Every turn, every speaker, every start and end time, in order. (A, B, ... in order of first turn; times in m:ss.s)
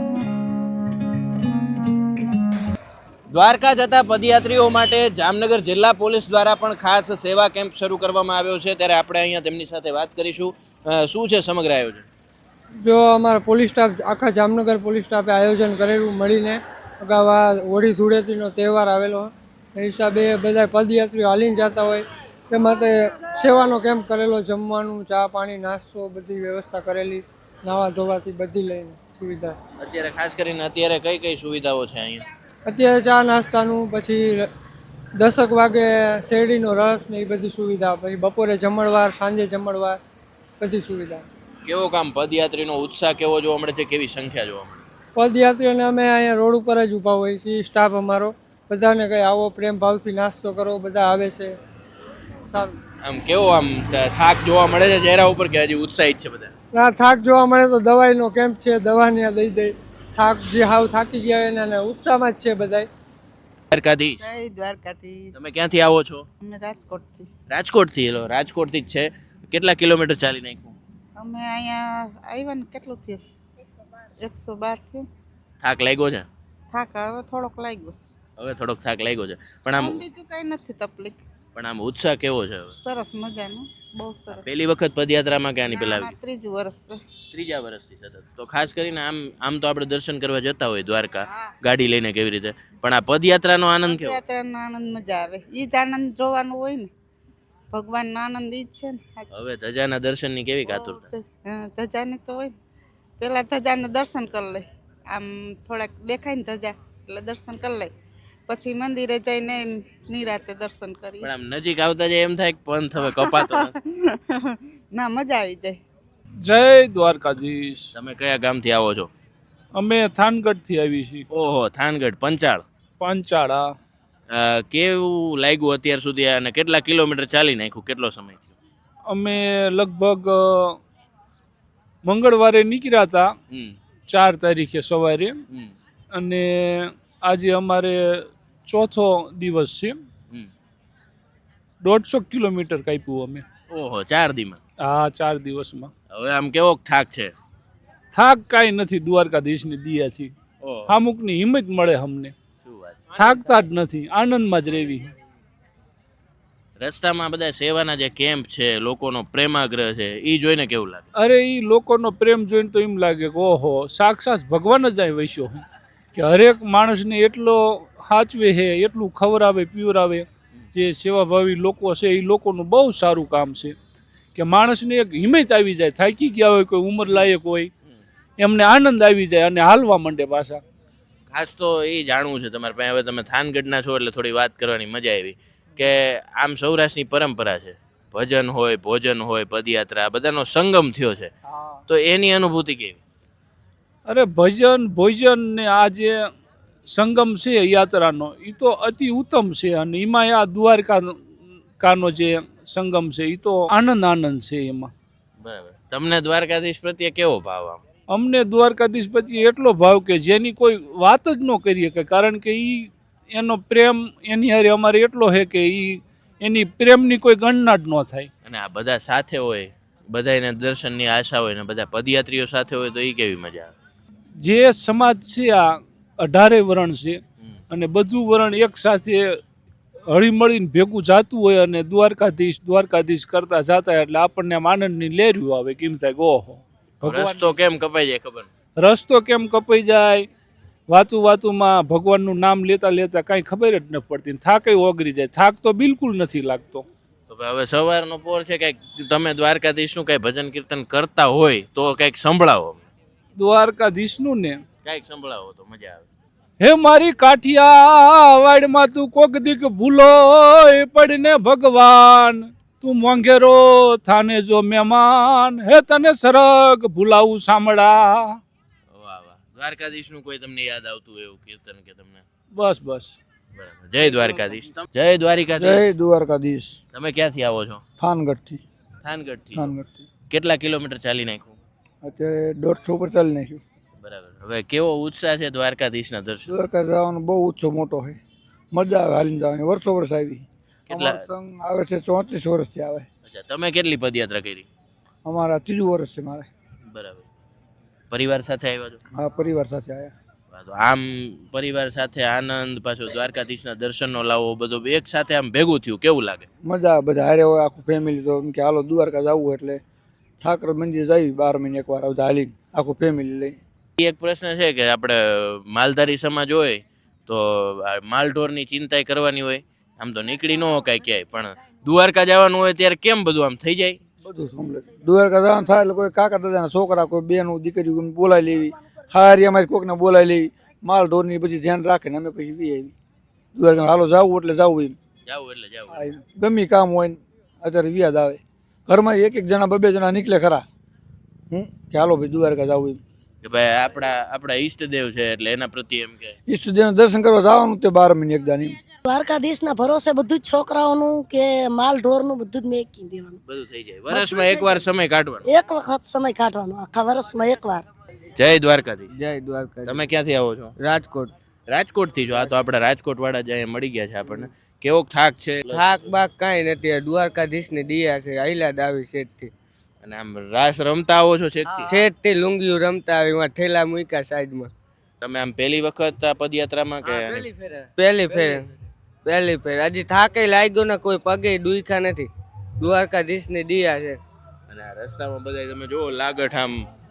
0:03.3-0:12.1 A
0:12.8-0:29.6 B
0:29.8-0:32.2 A
0:32.7-0:34.5 B
0:35.2-0:40.0 B
0:40.6-0:41.2 B
0:41.7-0:44.8 A
0:45.2-0:51.6 B
0:52.5-0:52.8 B
0:53.0-0:56.5 A
0:56.7-1:02.9 B
1:03.7-1:04.2 A
1:04.2-1:05.4 C
1:05.4-1:06.3 A
1:06.4-1:07.3 C
1:07.5-1:10.8 A
1:11.2-1:13.2 C
1:14.2-1:15.0 C
1:15.6-1:16.3 A
1:16.7-1:18.1 C
1:18.4-1:20.0 A
1:19.7-1:21.2 C
1:21.5-1:22.8 A
1:22.8-1:24.4 C
1:24.3-1:26.2 A
1:25.7-1:27.0 C
1:27.3-1:34.2 A
1:33.8-1:36.9 C
1:37.7-1:39.4 C
1:39.3-1:41.1 A
1:40.7-1:42.5 C
1:43.2-1:47.9 C
1:48.5-1:51.3 C
1:51.2-1:53.7 A
1:53.2-1:55.8 C
1:56.4-1:57.9 D
1:57.9-1:59.1 A
1:59.8-2:01.2 D
2:01.3-2:02.6 A
2:03.0-2:03.7 D
2:04.3-2:08.5 A
2:09.1-2:10.8 D
2:12.0-2:13.3 D
2:13.5-2:13.8 A
2:14.1-2:15.4 D
2:16.1-2:20.0 D
2:21.8-2:23.4 D
2:23.7-2:24.6 A
2:24.8-2:25.9 D
2:26.1-2:27.3 A
2:28.1-2:30.3 D
2:30.6-2:30.9 A
2:30.9-2:32.3 D
2:32.6-2:33.3 A
2:33.2-2:35.1 D
2:36.8-2:41.1 A
2:41.2-2:53.8 D
2:54.4-2:57.7 D
2:58.4-3:00.6 D
3:01.3-3:11.3 A
3:11.9-3:13.0 A
3:14.1-3:16.2 D
3:16.9-3:21.2 D
3:21.8-3:24.9 D
3:25.4-3:27.8 A
3:28.1-3:38.3 D
3:38.4-3:43.7 A
3:44.4-3:49.4 D
3:50.1-3:57.6 D
3:57.0-3:58.5 A
3:58.8-4:00.2 D
4:00.9-4:06.9 D
4:07.3-4:12.8 A
4:13.4-4:14.6 D
4:14.8-4:16.1 A
4:16.6-4:28.4 D
4:28.9-4:32.2 A
4:32.6-4:33.2 D
4:33.6-4:35.9 A
4:35.6-4:36.8 E
4:36.9-4:37.8 A
4:38.0-4:38.6 E
4:39.0-4:39.7 A
4:39.6-4:40.1 E
4:40.3-4:41.6 A
4:42.0-4:43.6 E
4:44.0-4:46.5 A
4:46.5-4:48.2 E
4:48.7-4:53.1 E
4:50.9-4:51.2 A
4:53.2-4:54.7 A
4:55.2-4:56.5 E
4:56.9-4:57.2 A
4:58.1-4:59.0 A
4:59.1-5:00.1 E
5:00.5-5:06.5 A
5:06.6-5:09.8 E
5:10.4-5:13.6 E
5:14.0-5:24.0 A
5:24.2-5:32.9 E
5:33.6-5:35.0 E
5:35.3-5:36.0 A
5:35.9-5:40.6 E
5:41.5-5:43.0 E
5:43.4-5:46.4 A
5:46.5-5:48.8 E
5:49.0-5:53.4 F
5:53.5-5:55.5 A
5:54.1-5:54.8 F
5:55.5-5:57.8 F
5:58.4-5:59.1 A
5:59.1-6:00.1 G
5:59.8-6:00.7 A
6:00.8-6:01.3 G
6:01.7-6:06.2 A
6:05.7-6:09.5 G
6:10.0-6:11.9 A
6:11.8-6:14.7 G
6:15.2-6:17.5 A
6:18.0-6:18.7 G
6:19.2-6:24.2 G
6:24.7-6:26.8 A